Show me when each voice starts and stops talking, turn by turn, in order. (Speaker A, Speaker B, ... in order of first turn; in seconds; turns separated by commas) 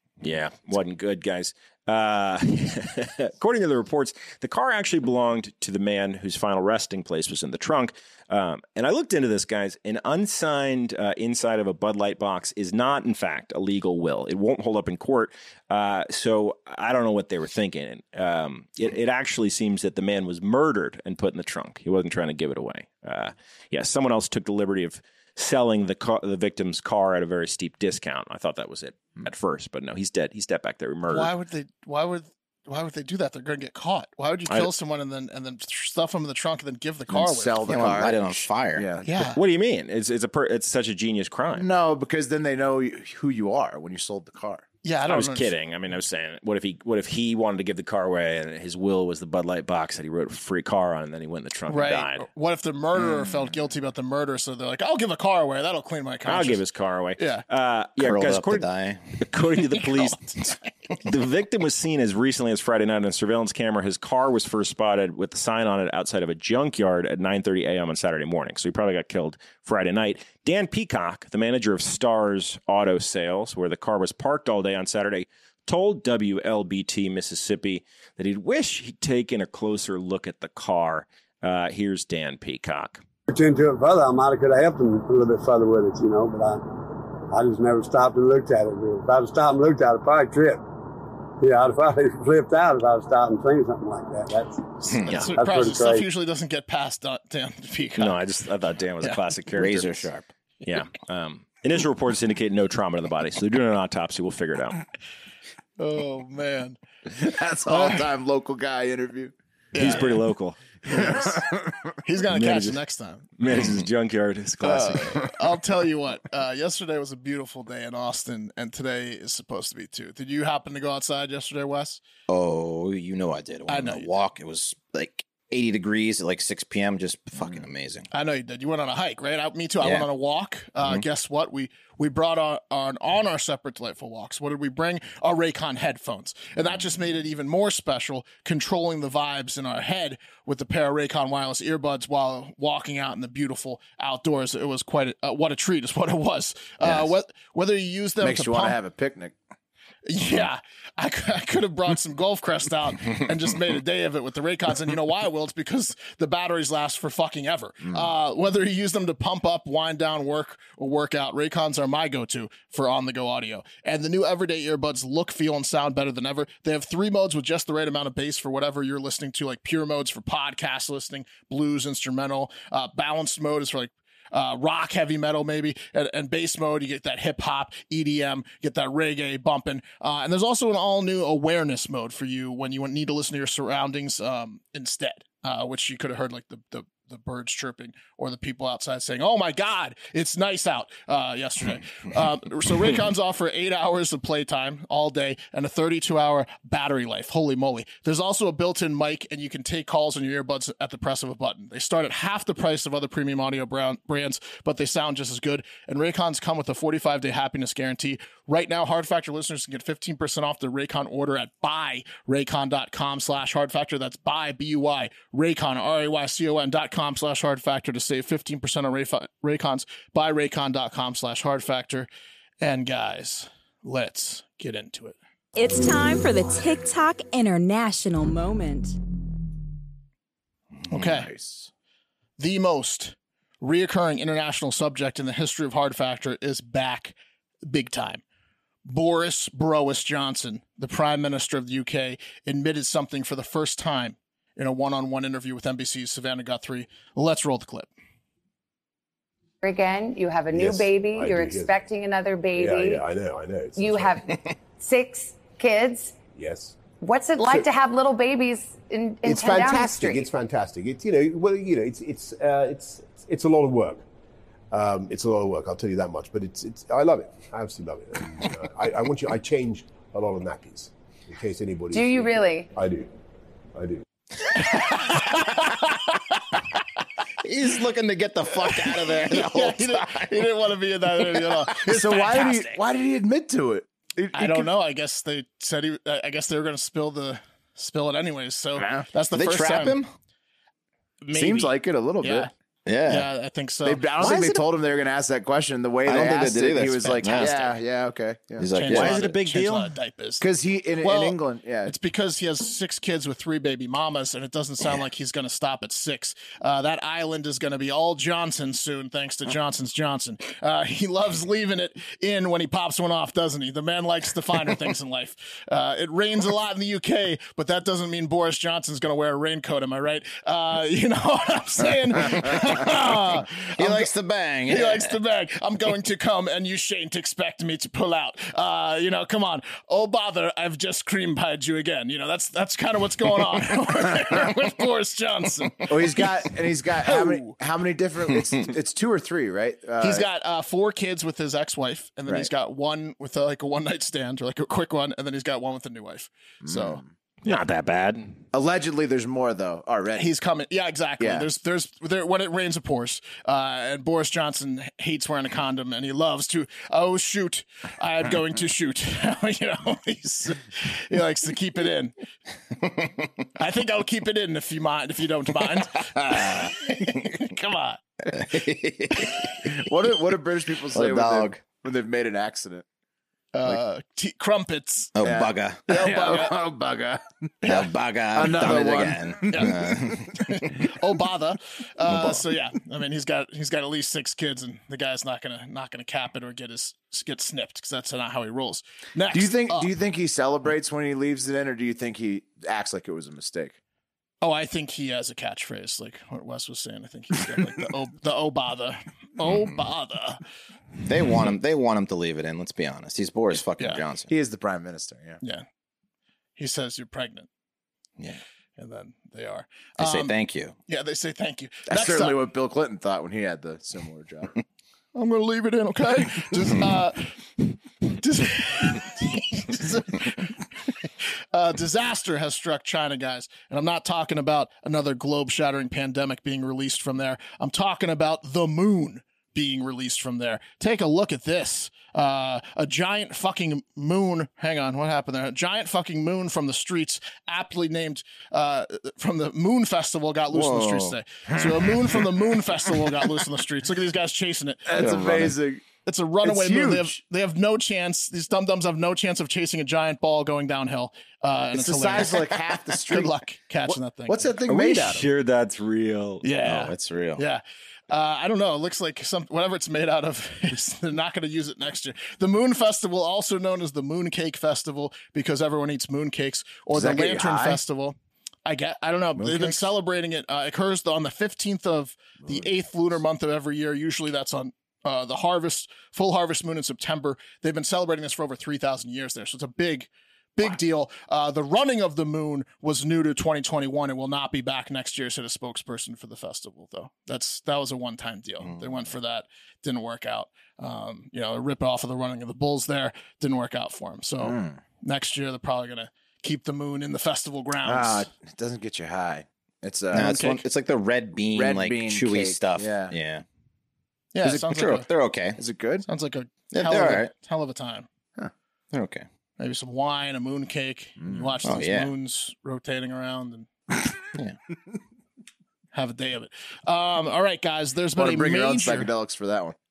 Speaker A: 0.2-31.3, Speaker B: 31.1-37.8, Speaker C: 37.1-39.1, Speaker D: 37.6-38.9, Speaker B: 39.0-39.4, Speaker A: 39.2-41.7, Speaker C: 41.5-44.6, Speaker B: 44.8-45.5, Speaker A: 45.1-52.2, Speaker B: 51.7-56.6, Speaker A: 56.2-83.0, Speaker B: 57.2-57.4, Speaker D: 58.0-59.1, Speaker B: 59.8-60.3, Speaker E: 83.3-90.7, Speaker E: 91.4-96.0, Speaker B: 94.9-98.2, Speaker A: 98.0-100.1, Speaker D: 99.5-100.3, Speaker A: 100.6-104.8, Speaker B: 105.8-106.8, Speaker C: 107.1-109.3, Speaker B: 107.7-108.0, Speaker B: 109.7-110.2, Speaker A: 109.7-111.4, Speaker C: 110.9-111.9, Speaker B: 112.0-113.3, Speaker A: 112.3-112.8, Speaker A: 113.4-115.3, Speaker B: 114.6-122.0, Speaker D: 122.3-128.1, Speaker B: 123.7-124.1, Speaker B: 128.1-148.8, Speaker D: 129.8-130.1, Speaker C: 148.2-149.3, Speaker B: 150.1-222.1, Speaker B: 222.6-225.2, Speaker F: 225.6-229.0, Speaker B: 230.9-231.3, Speaker C: 230.9-231.7, Speaker B: 232.4-238.2, Speaker B: 238.9-247.9, Speaker G: 249.6-253.1, Speaker H: 250.5-251.7, Speaker H: 252.5-254.2, Speaker G: 253.8-256.2, Speaker H: 256.3-256.8, Speaker G: 256.9-260.3, Speaker H: 259.2-264.0, Speaker H: 264.7-273.1, Speaker G: 271.9-272.7, Speaker H: 273.7-274.0, Speaker B: 274.7-275.7, Speaker D: 277.4-280.5, Speaker B: 278.7-282.8, Speaker C: 281.7-284.7, Speaker B: 284.3-290.0, Speaker D: 288.8-290.1, Speaker B: 291.2-292.5, Speaker C: 291.3-292.5, Speaker D: 292.9-293.3, Speaker B: 293.0-294.0, Speaker C: 293.8-298.7, Speaker D: 294.2-294.7, Speaker D: 296.0-297.6, Speaker B: 297.0-297.7, Speaker D: 298.6-299.2, Speaker B: 298.7-300.5, Speaker A: 298.9-299.9, Speaker C: 300.4-301.9, Speaker B: 301.0-324.1, Speaker D: 322.7-323.0, Speaker D: 323.7-325.2, Speaker B: 324.7-336.3, Speaker C: 335.9-340.2, Speaker B: 337.0-337.5, Speaker B: 340.0-347.0, Speaker C: 346.6-347.1, Speaker A: 347.4-348.4, Speaker C: 348.5-350.3, Speaker B: 350.1-362.1, Speaker C: 351.2-351.5, Speaker D: 362.8-363.3, Speaker B: 363.6-368.0, Speaker D: 366.2-366.7, Speaker D: 368.3-369.7, Speaker C: 369.6-372.8, Speaker D: 370.9-371.6, Speaker B: 373.5-375.1, Speaker D: 375.1-375.8, Speaker C: 375.2-377.2, Speaker B: 375.9-376.6, Speaker D: 377.6-380.6, Speaker C: 378.3-379.8, Speaker B: 379.5-389.9, Speaker D: 382.0-382.4, Speaker C: 389.3-393.8, Speaker B: 394.4-400.4, Speaker D: 401.0-404.3, Speaker B: 403.8-404.0, Speaker C: 404.3-405.4, Speaker B: 406.6-407.5, Speaker B: 408.8-410.3, Speaker D: 410.0-410.7, Speaker B: 410.9-412.4, Speaker C: 411.9-414.6, Speaker B: 415.1-420.6, Speaker B: 421.5-445.1, Speaker D: 440.5-441.2, Speaker C: 444.9-445.8, Speaker D: 445.0-445.5, Speaker B: 446.0-452.4, Speaker C: 446.4-447.1, Speaker C: 451.7-453.3, Speaker B: 453.1-454.5, Speaker C: 454.3-455.3, Speaker A: 454.7-456.4, Speaker B: 456.4-498.3, Speaker D: 456.6-457.4, Speaker C: 466.9-467.8, Speaker C: 469.4-469.9, Speaker D: 488.6-489.1, Speaker C: 494.4-494.8, Speaker C: 497.8-500.3, Speaker D: 500.1-503.4, Speaker B: 500.1-500.6, Speaker C: 501.5-503.1, Speaker B: 504.3-505.1, Speaker C: 504.4-504.7, Speaker D: 504.5-505.6, Speaker C: 505.6-506.1, Speaker B: 506.0-508.1, Speaker D: 506.7-507.3, Speaker D: 508.9-509.2, Speaker B: 509.6-513.7, Speaker C: 511.2-511.5, Speaker D: 511.6-512.1, Speaker B: 515.9-519.1, Speaker C: 518.1-519.8